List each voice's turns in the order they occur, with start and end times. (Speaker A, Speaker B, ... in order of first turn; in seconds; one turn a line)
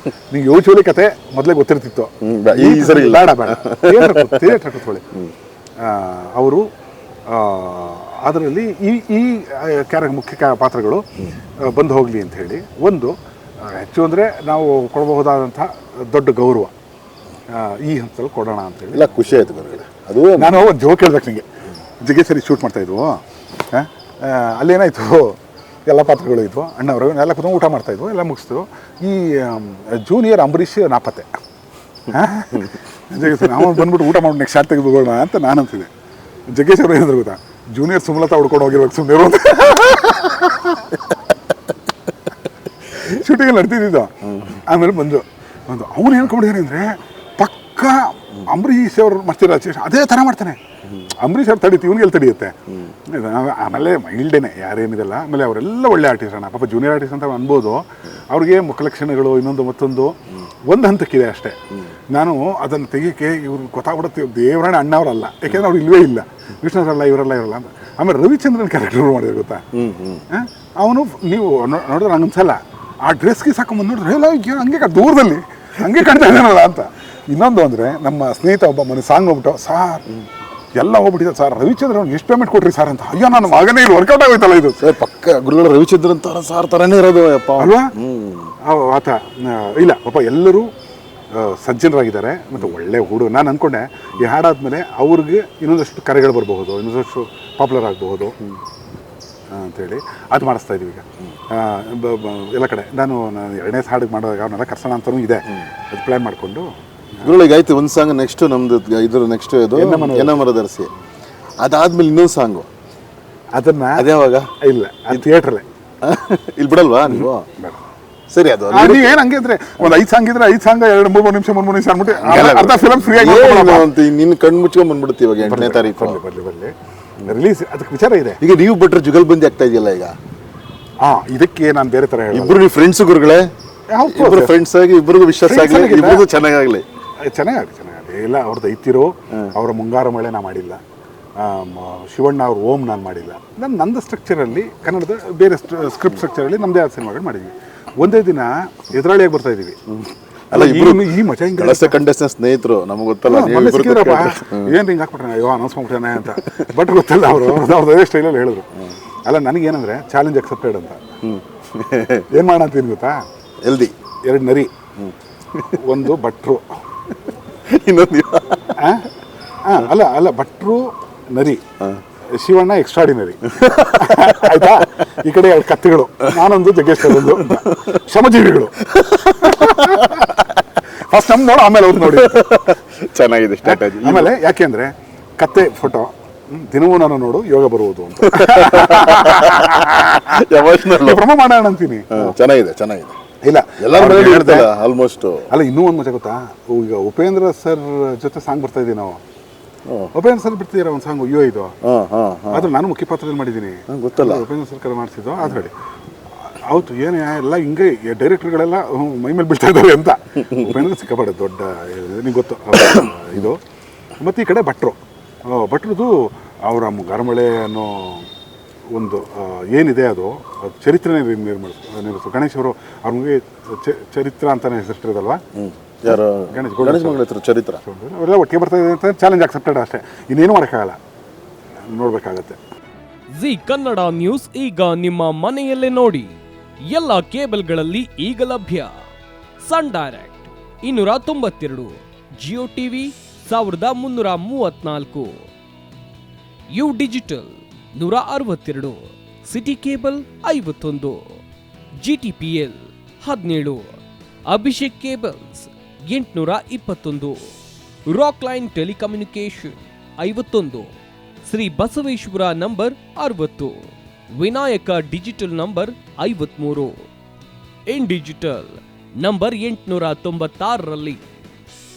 Speaker A: 0.3-5.0
Speaker B: 2.2-4.6
Speaker A: 5.8-6.7
Speaker A: 7.3-11.0
Speaker A: 11.6-16.7
Speaker A: 17.5-19.6
Speaker B: 18.9-20.6
Speaker A: 20.4-21.4
Speaker A: 22.0-31.3
Speaker A: 32.1-35.9
Speaker A: 36.5-41.0
Speaker A: 43.0-50.6
Speaker B: 44.3-44.6
Speaker A: 51.2-61.6
Speaker A: 62.1-69.7
Speaker B: 69.7-70.2
Speaker A: 70.3-80.0
Speaker A: 80.7-84.8
Speaker B: 84.8-88.5
Speaker A: 87.6-87.9
Speaker A: 88.6-90.7
Speaker A: 91.3-98.3
Speaker A: 99.5-107.3
Speaker B: 107.2-110.9
Speaker A: 109.7-110.4
Speaker B: 111.6-112.7
Speaker A: 113.5-114.0
Speaker B: 114.0-114.5
Speaker A: 114.6-115.6
Speaker B: 116.0-117.5
Speaker A: 117.1-117.8
Speaker B: 118.3-119.2
Speaker A: 118.7-123.9
Speaker B: 122.0-126.2
Speaker A: 125.4-126.7
Speaker A: 127.2-128.4
Speaker B: 128.4-130.2
Speaker A: 131.0-132.6
Speaker B: 132.3-133.5
Speaker A: 133.9-134.6
Speaker B: 134.1-136.8
Speaker A: 135.4-136.2
Speaker A: 137.2-140.8
Speaker A: 141.4-149.8
Speaker B: 150.0-154.8
Speaker A: 150.5-151.9
Speaker A: 153.2-161.0
Speaker B: 161.2-162.3
Speaker A: 162.3-163.2
Speaker B: 163.6-163.9
Speaker A: 164.2-164.7
Speaker B: 165.0-165.6
Speaker A: 165.7-166.6
Speaker B: 167.7-168.8
Speaker A: 168.8-169.1
Speaker A: 169.6-171.6
Speaker A: 172.3-178.9
Speaker B: 173.5-174.9
Speaker B: 177.1-177.9
Speaker B: 178.9-180.4
Speaker A: 179.4-180.3
Speaker A: 181.1-182.4
Speaker B: 182.1-184.3
Speaker A: 183.6-192.3
Speaker B: 188.2-191.3
Speaker B: 192.1-193.1
Speaker A: 193.4-194.7
Speaker B: 193.8-195.5
Speaker A: 195.5-199.2
Speaker B: 199.9-200.1
Speaker A: 200.1-201.7
Speaker B: 201.8-202.7
Speaker A: 202.5-205.7
Speaker B: 203.9-204.4
Speaker A: 206.5-213.6
Speaker A: 214.2-218.3
Speaker A: 218.9-225.4
Speaker B: 225.6-227.8
Speaker A: 226.1-227.2
Speaker A: 227.8-231.0
Speaker A: 231.9-232.6
Speaker C: 233.3-236.3
Speaker C: 236.9-238.9
Speaker C: 239.6-245.4
Speaker C: 246.7-251.4
Speaker C: 252.0-253.9
Speaker C: 254.5-257.5
Speaker C: 258.1-260.9
Speaker C: 261.4-267.0
Speaker C: 267.9-271.2